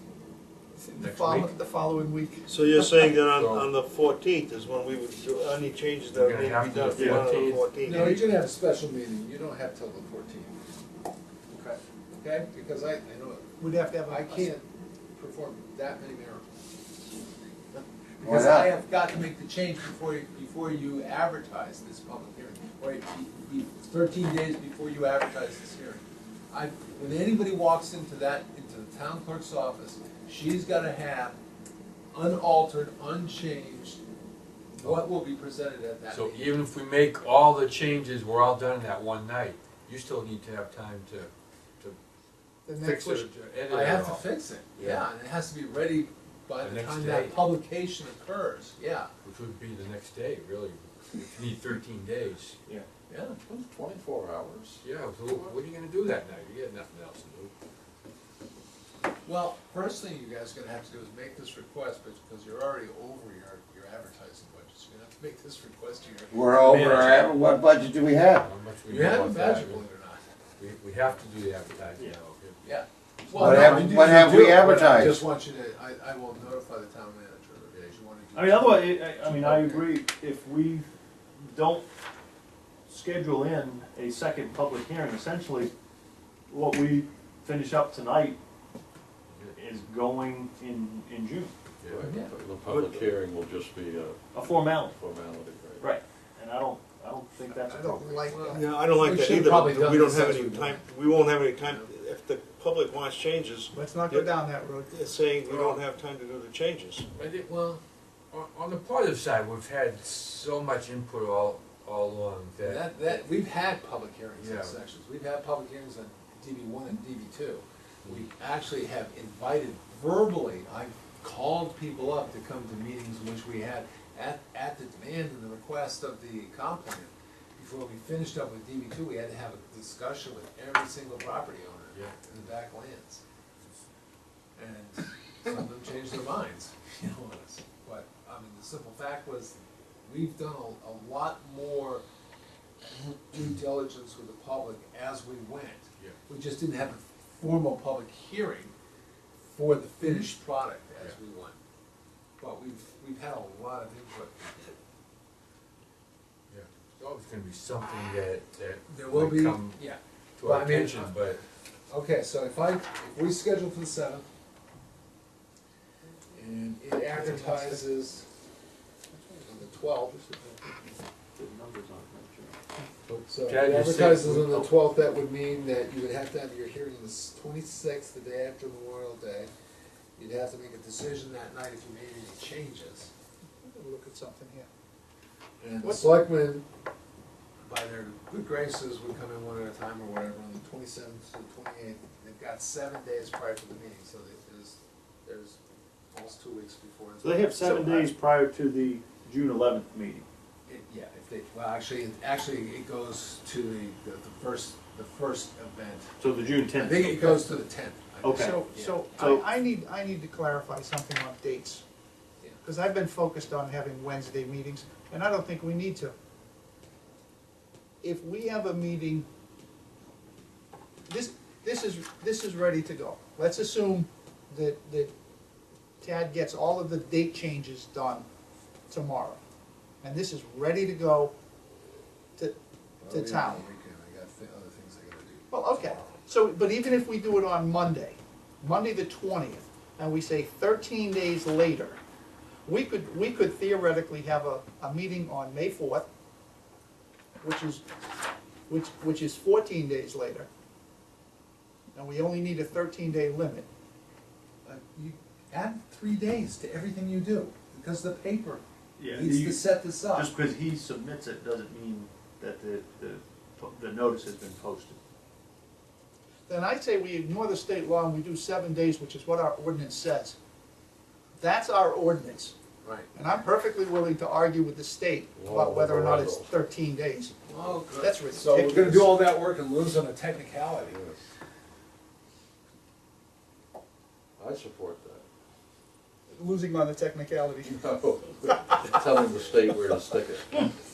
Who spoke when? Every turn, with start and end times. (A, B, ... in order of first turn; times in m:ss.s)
0:00.8-0:02.4 A
0:01.0-0:01.5 B
0:02.5-0:08.2 C
0:03.2-0:03.7 B
0:06.1-0:08.2 B
0:07.0-0:07.3 D
0:07.8-0:10.5 E
0:12.2-0:13.5 E
0:13.6-0:14.5 A
0:14.0-0:14.6 E
0:15.2-0:16.5 E
0:18.2-0:31.4 E
0:18.2-0:18.7 F
0:32.1-0:34.0 E
0:34.8-0:36.6 E
0:36.1-0:42.0 B
0:42.7-0:43.3 A
0:42.8-0:44.3 B
0:43.7-0:49.1 E
0:46.6-0:47.4 B
0:49.2-0:52.6 B
0:53.1-0:53.4 E
0:53.5-0:54.8 G
0:54.8-0:57.5 B
0:59.2-1:07.1 E
1:06.3-1:08.5 F
1:06.7-1:07.1 B
1:08.4-1:09.8 B
1:08.9-1:10.2 E
1:10.6-1:12.6 B
1:12.6-1:20.0 E
1:13.3-1:15.2 F
1:13.4-1:14.1 B
1:18.3-1:20.9 D
1:21.4-1:21.9 D
1:22.9-1:25.7 D
1:26.5-1:28.4 D
1:29.6-1:31.5 D
1:31.8-1:32.1 B
1:31.9-1:35.9 G
1:32.0-1:32.4 E
1:32.7-1:33.1 C
1:34.3-1:35.0 D
1:35.8-1:38.4 D
1:37.6-1:38.7 A
1:38.3-1:40.9 E
1:38.5-1:44.3 C
1:41.6-1:41.9 E
1:43.7-1:45.0 A
1:44.9-1:47.0 C
1:47.2-1:47.5 B
1:47.2-1:47.8 E
1:48.3-1:53.2 B
1:52.6-2:13.2 E
1:54.4-1:54.8 B
2:11.9-2:12.4 B
2:14.6-2:22.0 E
2:22.8-2:28.7 E
2:29.4-2:31.6 E
2:32.4-2:34.8 E
2:36.5-2:39.8 B
2:38.9-2:41.2 E
2:40.4-2:41.4 B
2:41.9-2:44.3 E
2:46.3-2:48.2 E
2:47.1-2:47.8 A
2:49.1-2:49.4 A
2:49.4-2:50.6 E
2:50.7-2:52.6 D
2:53.1-2:54.4 B
2:53.3-2:59.5 E
2:53.7-2:54.8 D
3:00.2-3:03.1 E
3:03.6-3:04.7 A
3:05.6-3:06.6 E
3:05.8-3:06.1 A
3:07.6-3:15.6 E
3:16.1-3:18.1 E
3:17.2-3:20.3 D
3:17.7-3:18.0 A
3:20.7-3:26.1 E
3:26.2-3:27.4 D
3:26.8-3:29.1 E
3:28.2-3:29.5 D
3:28.4-3:31.8 A
3:32.6-3:36.2 A
3:38.0-3:39.3 A
3:41.1-3:45.1 A
3:46.0-3:48.3 A
3:48.9-3:49.4 A
3:50.0-3:51.3 A
3:53.0-3:56.2 E
3:53.1-3:53.6 A
3:55.5-4:02.0 A
4:02.6-4:06.1 A
4:07.4-4:07.8 A
4:08.7-4:10.5 A
4:12.0-4:13.7 A
4:14.6-4:20.3 E
4:19.0-4:25.0 D
4:26.5-4:30.4 A
4:31.4-4:32.6 A
4:32.8-4:33.1 E
4:33.1-4:37.4 A
4:35.4-4:36.6 G
4:37.5-4:41.0 E
4:37.9-4:39.2 A
4:40.8-4:41.2 G
4:44.4-4:45.3 G
4:46.3-4:47.9 A
4:47.7-4:50.7 G